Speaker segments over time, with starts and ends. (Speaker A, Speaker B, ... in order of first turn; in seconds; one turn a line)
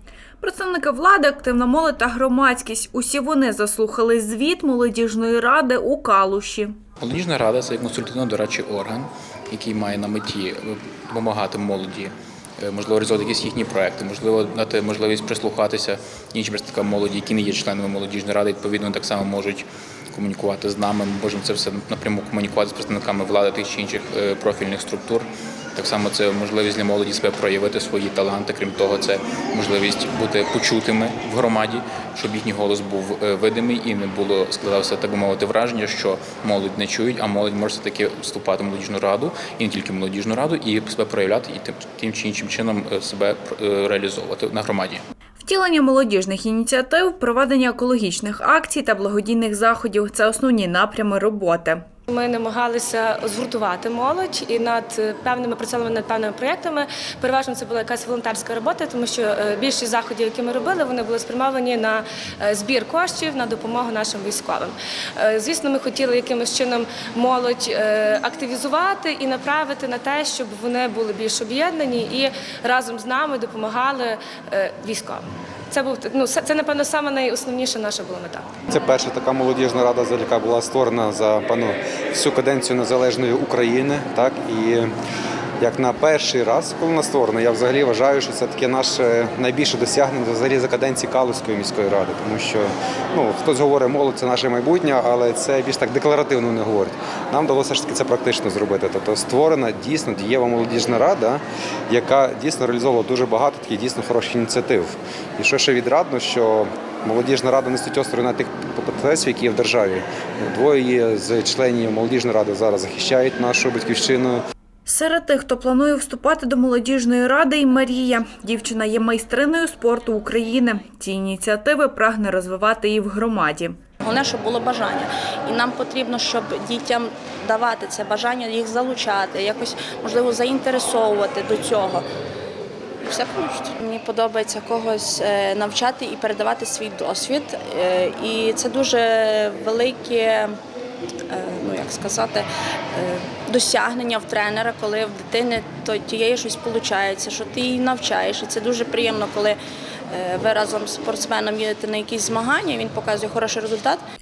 Speaker A: 0.4-6.7
Speaker B: 7.0-45.0
Speaker A: 45.4-51.8
Speaker C: 52.1-78.5
Speaker D: 78.7-84.9
Speaker D: 85.6-114.4
Speaker A: 114.9-123.8
Speaker E: 124.0-132.1
Speaker E: 133.0-140.5
Speaker E: 141.3-149.6
Speaker E: 150.1-154.0